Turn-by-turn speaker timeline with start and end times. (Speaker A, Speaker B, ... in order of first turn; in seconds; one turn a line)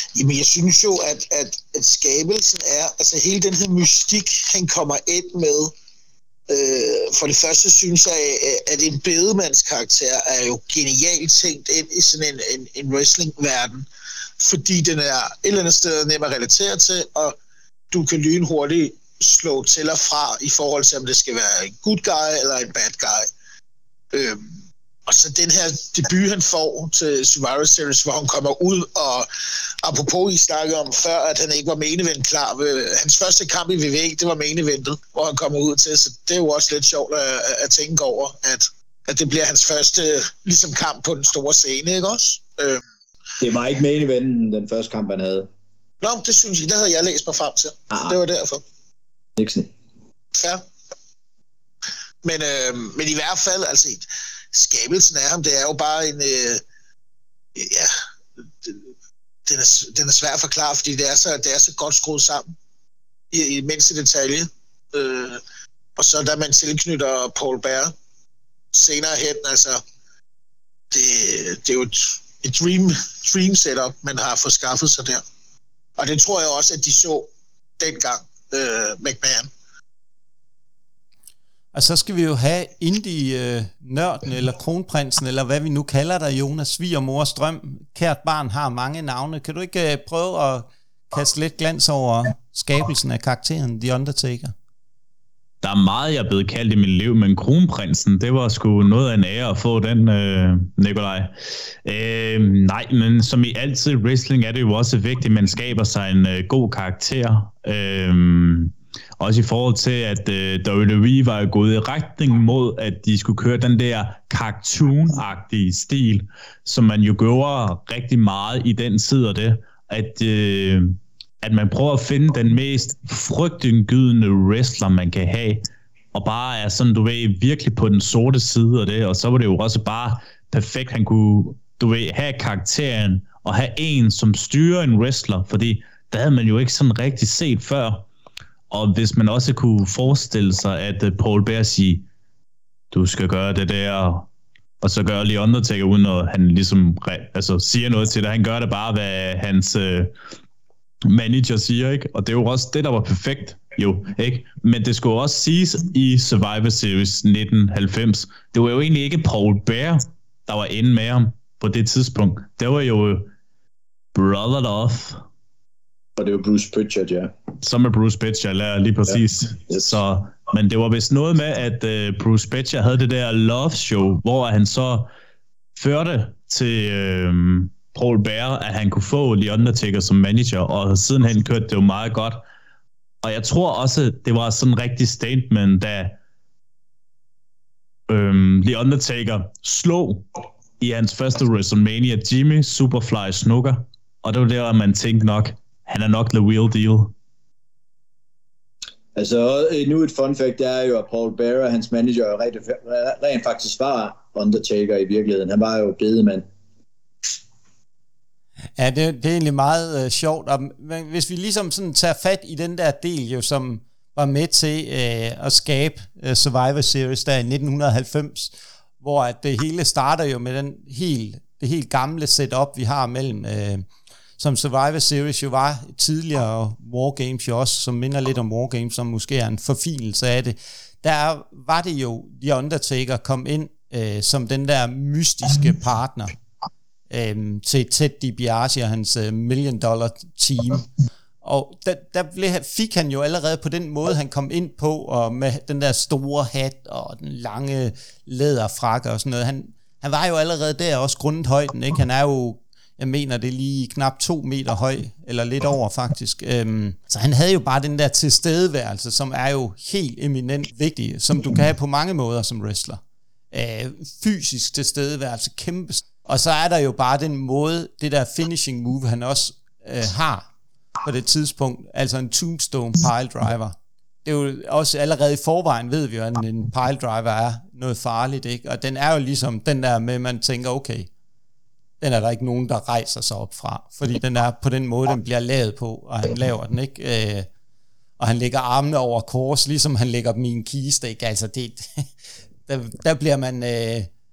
Speaker A: 0.1-5.8
Speaker A: 6.5-13.9
Speaker A: 14.4-17.4
Speaker A: 17.9-23.3
Speaker A: 24.1-24.5
Speaker A: 25.1-29.3
Speaker A: 29.8-42.8
Speaker B: 43.4-45.5
Speaker A: 46.0-48.6
Speaker B: 47.9-48.2
Speaker B: 49.4-49.7
Speaker A: 50.4-50.6
Speaker A: 52.2-56.6
Speaker A: 57.6-57.9
Speaker A: 59.5-62.5
Speaker A: 63.3-65.4
Speaker A: 66.0-67.9
Speaker A: 68.7-69.8
Speaker A: 70.9-75.2
Speaker A: 76.0-77.3
Speaker A: 77.8-79.5
Speaker C: 81.7-94.5
Speaker D: 95.6-101.3
Speaker D: 101.8-138.1
Speaker D: 138.7-142.1
Speaker D: 142.9-144.3
Speaker D: 144.8-150.1
Speaker D: 151.1-163.3
Speaker D: 164.2-165.2
Speaker B: 166.2-167.3
Speaker D: 167.6-175.1
Speaker B: 169.1-169.8
Speaker D: 175.8-182.4
Speaker D: 183.2-186.2
Speaker D: 188.1-197.1
Speaker B: 199.2-206.5
Speaker C: 208.8-223.8
Speaker C: 224.4-236.3
Speaker C: 237.1-240.9
Speaker C: 241.4-263.0
Speaker C: 263.5-270.5
Speaker C: 271.0-281.1
Speaker C: 282.0-287.5
Speaker C: 288.2-292.1
Speaker C: 292.7-294.1